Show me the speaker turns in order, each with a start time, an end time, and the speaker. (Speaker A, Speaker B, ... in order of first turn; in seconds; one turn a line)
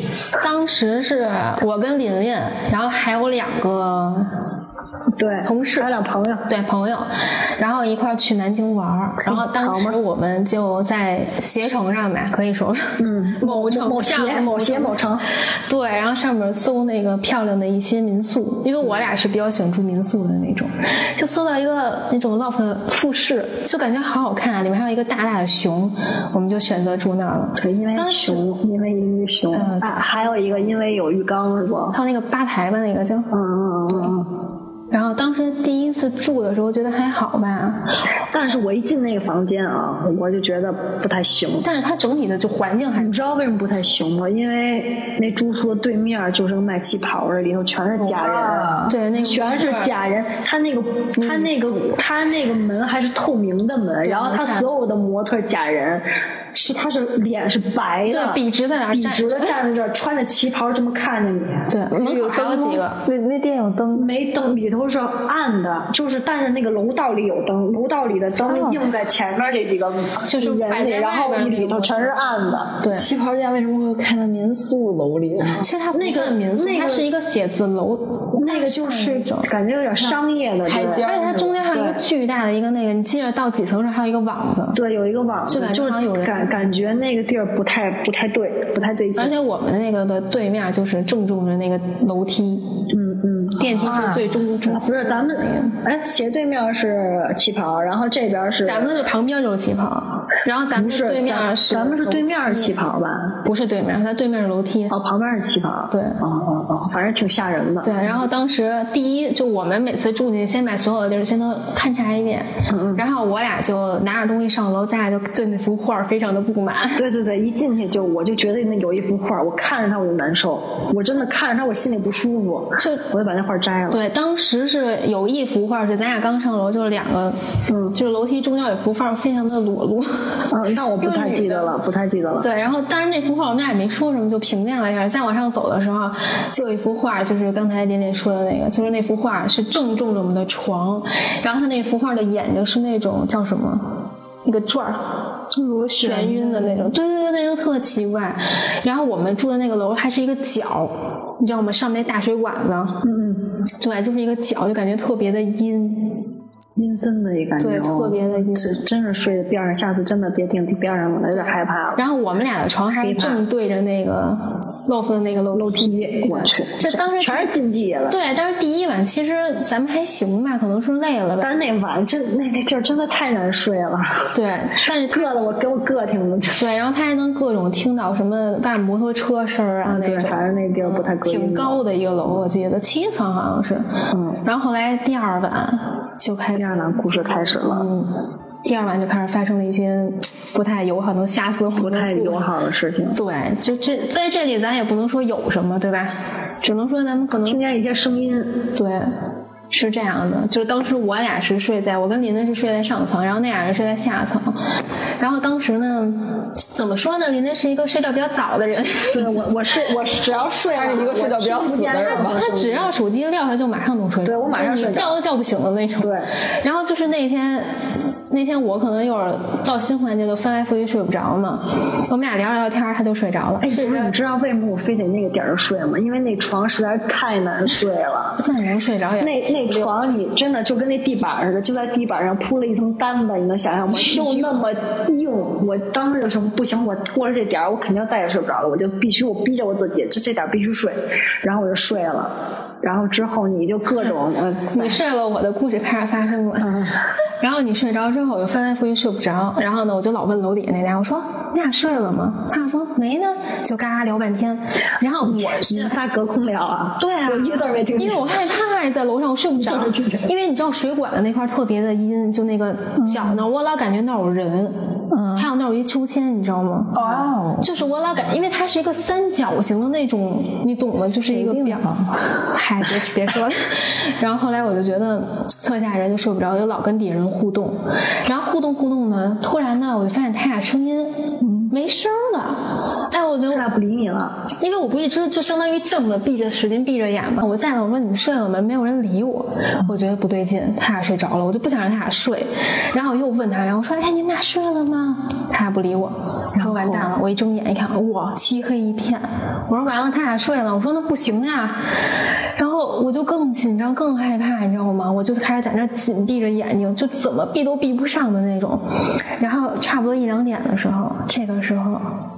Speaker A: 0.4-4.3
Speaker B: 5.2-6.5
Speaker A: 5.4-5.9
Speaker A: 6.5-28.4
Speaker B: 9.2-10.0
Speaker B: 13.0-15.2
Speaker B: 27.6-32.0
Speaker A: 29.5-30.7
Speaker A: 31.9-33.3
Speaker B: 33.3-34.3
Speaker A: 34.9-37.9
Speaker B: 38.3-41.6
Speaker A: 41.6-43.1
Speaker B: 43.0-61.7
Speaker C: 48.1-48.9
Speaker A: 48.9-49.9
Speaker A: 54.0-54.7
Speaker A: 58.1-59.6
Speaker A: 61.7-63.0
Speaker C: 61.9-64.1
Speaker B: 63.9-72.8
Speaker C: 68.4-68.8
Speaker A: 70.2-72.2
Speaker A: 72.8-73.1
Speaker D: 72.9-75.6
Speaker A: 75.6-79.5
Speaker B: 75.9-77.1
Speaker B: 78.3-82.0
Speaker D: 80.6-81.5
Speaker A: 81.0-84.8
Speaker B: 84.7-89.3
Speaker A: 85.5-86.5
Speaker A: 89.2-92.8
Speaker B: 92.9-99.1
Speaker A: 93.6-95.8
Speaker A: 98.6-102.7
Speaker B: 100.8-103.4
Speaker A: 103.4-104.9
Speaker B: 104.9-108.2
Speaker A: 105.9-106.2
Speaker A: 107.8-117.0
Speaker B: 112.7-113.0
Speaker B: 117.0-124.0
Speaker A: 122.8-123.0
Speaker A: 123.9-127.4
Speaker B: 127.7-128.0
Speaker A: 127.9-130.5
Speaker B: 130.5-132.5
Speaker A: 131.0-131.8
Speaker A: 132.4-143.9
Speaker A: 144.4-145.0
Speaker B: 145.5-146.9
Speaker A: 146.0-153.1
Speaker B: 153.0-153.4
Speaker A: 153.8-156.2
Speaker B: 156.8-162.0
Speaker A: 157.6-158.8
Speaker A: 161.3-167.5
Speaker B: 162.9-163.4
Speaker B: 165.5-168.2
Speaker A: 168.1-171.5
Speaker B: 171.4-174.3
Speaker A: 174.3-175.3
Speaker B: 175.1-176.8
Speaker A: 176.6-183.9
Speaker B: 179.8-181.8
Speaker B: 184.1-184.4
Speaker A: 184.4-192.4
Speaker B: 186.5-187.9
Speaker B: 191.8-193.2
Speaker A: 193.1-197.6
Speaker B: 197.4-198.6
Speaker A: 198.7-199.1
Speaker A: 199.7-204.6
Speaker A: 205.2-209.3
Speaker B: 209.1-212.9
Speaker D: 210.7-212.4
Speaker A: 212.0-224.1
Speaker B: 214.2-215.2
Speaker B: 216.0-216.3
Speaker B: 223.6-228.4
Speaker A: 228.4-229.9
Speaker B: 229.2-245.0
Speaker A: 244.7-246.8
Speaker B: 246.6-246.9
Speaker A: 247.4-255.9
Speaker B: 255.2-258.4
Speaker A: 257.0-264.8
Speaker B: 259.6-260.3
Speaker C: 265.1-265.4
Speaker A: 265.3-267.0
Speaker C: 266.9-267.7
Speaker A: 267.6-271.9
Speaker C: 271.2-272.1
Speaker A: 272.5-283.7
Speaker C: 281.4-281.7
Speaker B: 283.5-284.4
Speaker A: 284.6-308.9
Speaker A: 309.4-312.1